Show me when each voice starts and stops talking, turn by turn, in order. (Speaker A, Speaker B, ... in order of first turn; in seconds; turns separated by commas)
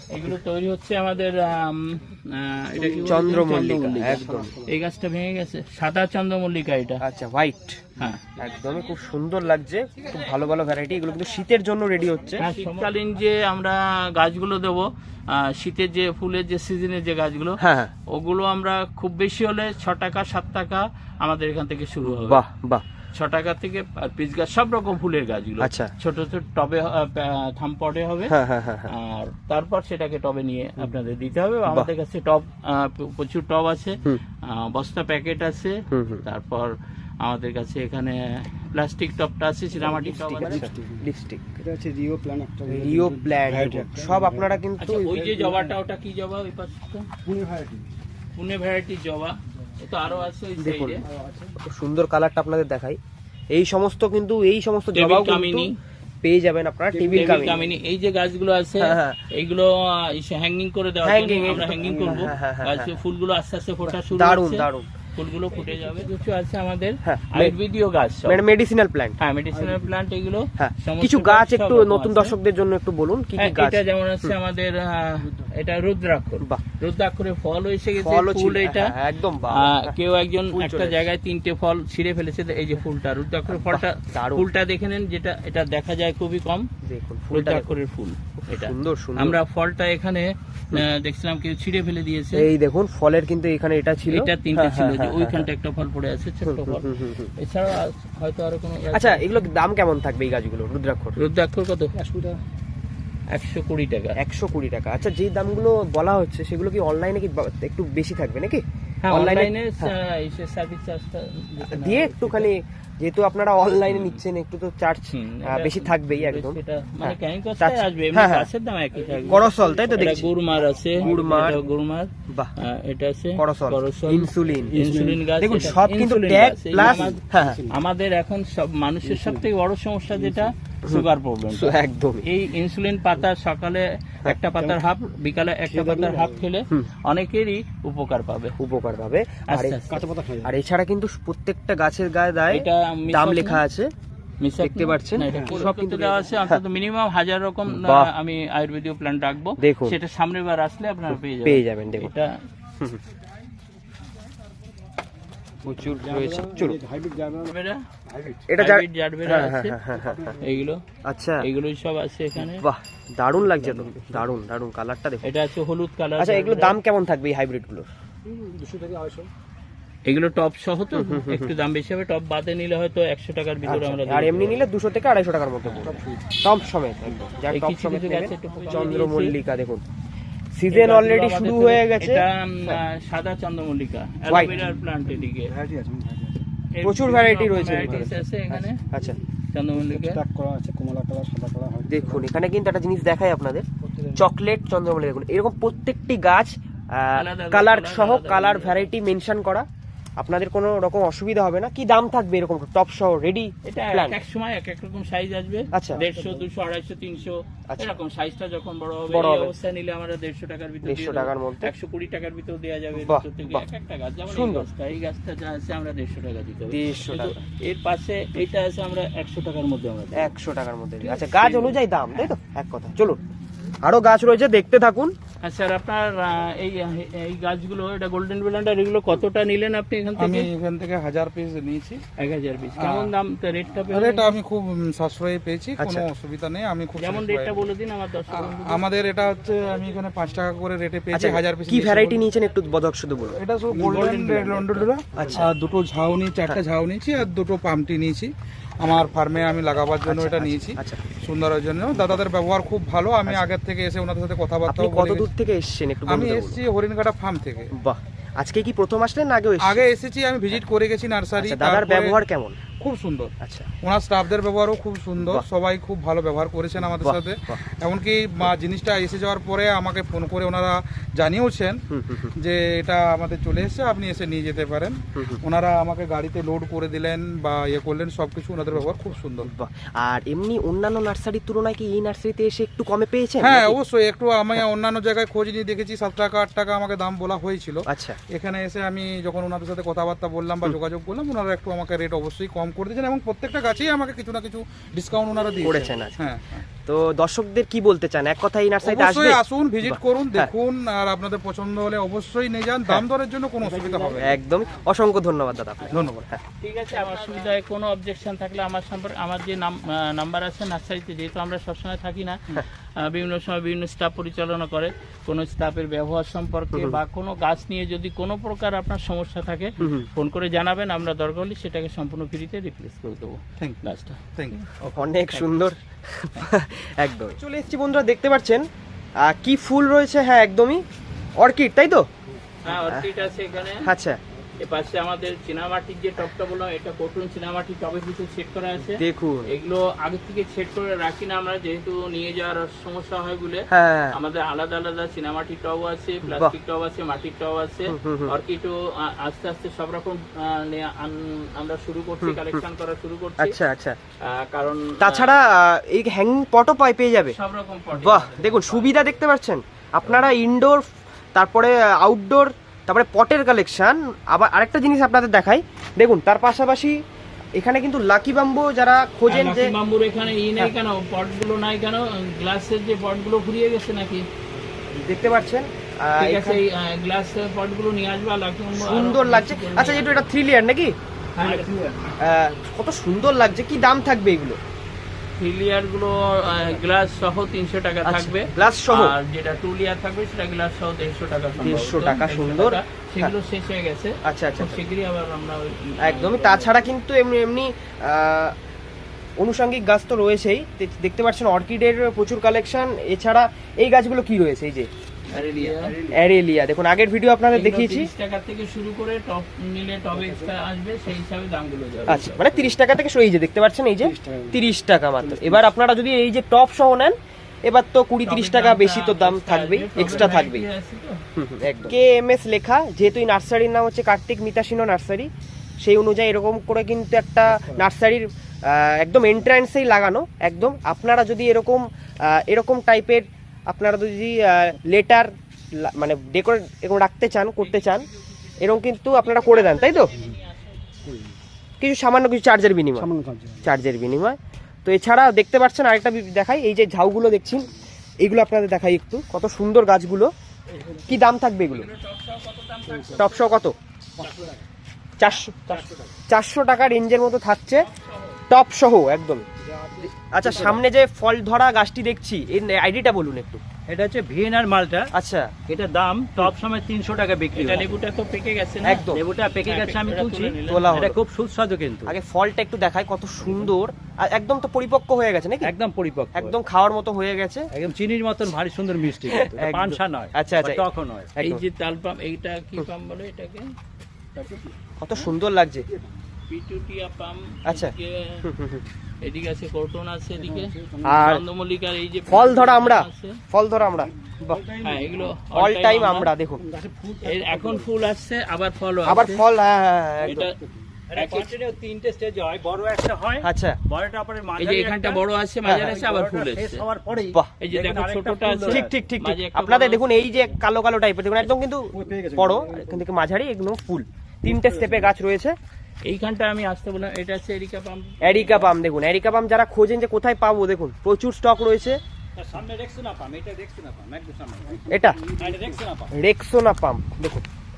Speaker A: 0.1-7.0, Speaker B: 2.8-4.7, Speaker C: 3.0-4.5, Speaker C: 7.0-12.5, Speaker B: 12.4-12.8, Speaker A: 12.4-22.4, Speaker C: 17.6-17.9, Speaker C: 22.0-22.8, Speaker A: 23.1-28.4, Speaker C: 25.6-25.9, Speaker C: 28.3-28.9, Speaker A: 28.9-40.7, Speaker C: 35.9-36.2, Speaker B: 39.8-41.0, Speaker C: 40.0-41.4, Speaker B: 41.6-45.8, Speaker C: 42.7-45.1, Speaker A: 44.8-47.1, Speaker B: 47.2-47.9, Speaker A: 48.4-51.0, Speaker C: 50.6-51.0, Speaker B: 51.0-51.5, Speaker C: 51.6-53.0, Speaker C: 53.5-55.7, Speaker A: 54.9-55.7, Speaker C: 56.2-57.6, Speaker B: 56.9-57.8, Speaker A: 57.1-68.4, Speaker C: 58.8-59.2, Speaker C: 61.0-62.9, Speaker B: 61.5-62.4, Speaker C: 64.1-64.9, Speaker B: 65.5-66.1, Speaker C: 67.0-67.6, Speaker C: 68.3-69.2, Speaker A: 69.2-72.4, Speaker B: 69.5-69.9, Speaker C: 70.6-74.3, Speaker A: 73.4-79.0, Speaker B: 75.2-75.5, Speaker C: 78.0-80.0, Speaker A: 79.5-86.7, Speaker C: 80.5-81.1, Speaker C: 83.5-84.5, Speaker C: 86.8-87.8, Speaker A: 87.3-92.5, Speaker C: 88.4-89.4, Speaker C: 92.3-95.5, Speaker A: 94.1-99.4, Speaker C: 96.5-97.3, Speaker C: 98.9-101.2, Speaker A: 101.2-101.9, Speaker B: 102.0-102.4, Speaker A: 103.3-104.2, Speaker C: 104.2-109.9, Speaker A: 109.0-112.5, Speaker C: 111.6-118.5, Speaker A: 113.9-114.2, Speaker A: 115.1-138.6, Speaker B: 118.9-121.7, Speaker C: 119.3-121.6, Speaker C: 123.4-127.6, Speaker B: 124.5-125.7, Speaker B: 126.8-127.8, Speaker B: 129.1-129.4, Speaker B: 130.1-130.5, Speaker C: 130.8-132.2, Speaker B: 135.7-136.4, Speaker C: 138.6-139.8, Speaker A: 139.5-140.0, Speaker B: 139.8-140.6, Speaker C: 140.4-143.9, Speaker A: 142.5-143.6, Speaker A: 144.4-152.3, Speaker C: 144.6-146.6, Speaker B: 145.3-145.7, Speaker C: 147.7-148.1, Speaker C: 149.6-150.0, Speaker C: 151.4-152.1, Speaker B: 155.6-158.5, Speaker C: 155.7-156.8, Speaker A: 157.4-157.8, Speaker C: 158.5-160.4, Speaker A: 158.6-159.8, Speaker B: 160.0-160.6, Speaker A: 160.4-160.8, Speaker C: 161.1-161.5, Speaker A: 161.4-162.7, Speaker C: 162.4-165.3, Speaker A: 163.4-164.2, Speaker A: 165.2-166.8, Speaker C: 166.2-167.9, Speaker B: 168.2-169.3, Speaker A: 170.1-174.7, Speaker C: 170.9-171.5, Speaker C: 173.7-179.8, Speaker B: 175.7-176.4, Speaker A: 177.5-179.4, Speaker C: 180.6-182.8, Speaker A: 180.7-185.5, Speaker C: 184.3-184.6, Speaker B: 184.4-186.4, Speaker A: 186.7-188.8, Speaker C: 186.8-189.2, Speaker A: 189.5-190.2, Speaker B: 189.7-192.3, Speaker C: 191.9-199.7, Speaker B: 193.8-194.2, Speaker A: 197.1-198.9, Speaker C: 200.2-204.2, Speaker A: 203.7-220.3, Speaker C: 205.7-206.0, Speaker B: 205.8-206.5, Speaker C: 209.1-209.6, Speaker C: 210.8-211.7, Speaker C: 212.9-213.7, Speaker C: 214.3-214.7, Speaker C: 216.7-217.4, Speaker C: 220.1-223.2, Speaker A: 221.0-222.3, Speaker C: 223.8-225.1, Speaker A: 225.4-230.5, Speaker D: 230.2-232.0, Speaker A: 232.2-234.3, Speaker D: 232.8-233.1, Speaker D: 233.9-237.7, Speaker C: 235.8-236.1, Speaker A: 237.0-238.9, Speaker D: 238.3-242.2, Speaker C: 241.1-244.4, Speaker D: 243.4-255.3, Speaker B: 243.8-245.5, Speaker C: 245.1-245.5, Speaker C: 250.1-251.0, Speaker C: 251.9-252.2, Speaker C: 253.3-253.5, Speaker C: 254.7-256.6, Speaker D: 256.1-257.7, Speaker C: 257.7-259.9, Speaker D: 259.6-262.2, Speaker C: 261.4-262.6, Speaker D: 262.8-271.8, Speaker C: 263.4-263.7, Speaker C: 265.2-265.5, Speaker C: 267.0-267.6, Speaker C: 271.9-272.3, Speaker D: 272.4-279.5, Speaker C: 275.2-275.4, Speaker C: 278.7-283.8, Speaker D: 283.4-296.6, Speaker C: 287.9-288.2, Speaker C: 295.6-296.2, Speaker C: 296.9-300.5, Speaker D: 298.8-304.4, Speaker B: 303.7-304.2, Speaker C: 304.2-306.4, Speaker D: 305.9-306.2, Speaker A: 306.6-325.7, Speaker C: 316.7-317.0, Speaker C: 319.8-320.1, Speaker C: 324.9-328.7, Speaker C: 329.2-330.8, Speaker C: 331.4-332.1, Speaker A: 332.6-333.9, Speaker C: 332.7-333.1, Speaker C: 333.8-334.2, Speaker A: 334.6-353.6, Speaker C: 338.9-339.5, Speaker C: 343.7-344.2, Speaker C: 346.2-346.5, Speaker C: 347.9-348.3, Speaker C: 352.2-352.6, Speaker C: 353.4-354.0, Speaker A: 354.2-355.4, Speaker C: 355.0-357.4, Speaker A: 357.3-359.0, Speaker C: 357.9-367.0, Speaker C: 367.6-369.7, Speaker A: 369.3-374.3, Speaker B: 374.6-375.5, Speaker C: 375.0-376.6, Speaker A: 376.2-380.3, Speaker C: 378.7-381.0, Speaker A: 381.4-381.7, Speaker E: 381.4-381.9, Speaker B: 381.5-381.9, Speaker C: 382.2-384.6, Speaker A: 385.4-396.9, Speaker C: 388.0-389.2, Speaker C: 391.6-393.3, Speaker C: 394.2-394.9, Speaker C: 396.0-398.6, Speaker C: 399.4-404.9, Speaker A: 405.3-406.0, Speaker B: 405.3-406.2, Speaker C: 406.1-408.1, Speaker A: 407.5-412.4, Speaker B: 410.1-410.6, Speaker C: 412.1-420.7, Speaker B: 412.4-412.8, Speaker B: 414.0-414.6, Speaker B: 415.2-415.7, Speaker A: 418.2-421.2, Speaker B: 420.0-420.3, Speaker C: 421.4-438.1, Speaker B: 427.5-427.8, Speaker A: 437.6-440.8, Speaker C: 438.6-440.1, Speaker B: 441.1-441.4, Speaker C: 441.8-443.1, Speaker B: 442.9-443.7, Speaker C: 443.6-447.7, Speaker C: 448.2-450.3, Speaker C: 451.1-451.9, Speaker A: 451.7-453.6, Speaker B: 452.9-453.2, Speaker C: 453.1-453.8, Speaker E: 454.2-454.6, Speaker C: 455.2-455.6, Speaker E: 455.7-456.1, Speaker C: 456.3-457.9, Speaker A: 457.8-458.4, Speaker C: 458.5-459.5, Speaker E: 459.7-460.8, Speaker B: 459.9-460.2, Speaker C: 460.3-463.6, Speaker E: 463.9-465.1, Speaker C: 465.1-465.5, Speaker E: 465.7-468.0, Speaker A: 467.5-469.1, Speaker C: 468.8-469.2, Speaker E: 469.1-472.2, Speaker A: 469.6-470.9, Speaker C: 470.6-471.2, Speaker C: 472.1-475.7, Speaker E: 475.6-476.6, Speaker C: 476.3-477.7, Speaker E: 477.7-481.3, Speaker C: 479.2-480.8, Speaker C: 481.4-481.6, Speaker A: 481.4-483.7, Speaker B: 484.4-484.8, Speaker C: 485.0-485.9, Speaker A: 486.5-488.5, Speaker C: 487.7-487.9, Speaker C: 488.4-488.9, Speaker A: 489.2-493.4, Speaker B: 490.4-491.4, Speaker C: 491.0-491.4, Speaker C: 492.3-494.6, Speaker B: 493.9-495.4, Speaker A: 494.8-496.3, Speaker C: 495.5-496.6, Speaker B: 496.6-497.9, Speaker A: 497.2-499.5, Speaker C: 499.1-500.5, Speaker A: 500.2-500.5, Speaker B: 500.3-501.0, Speaker E: 501.1-508.9, Speaker A: 501.2-501.6, Speaker C: 503.4-503.8, Speaker A: 504.6-506.9, Speaker C: 505.7-505.9, Speaker A: 507.6-510.1, Speaker C: 508.7-515.6, Speaker B: 511.9-513.1, Speaker B: 514.5-515.1, Speaker A: 516.1-518.7, Speaker C: 518.2-522.0, Speaker E: 522.4-526.1, Speaker B: 524.6-526.0, Speaker C: 524.9-525.2, Speaker C: 526.1-527.5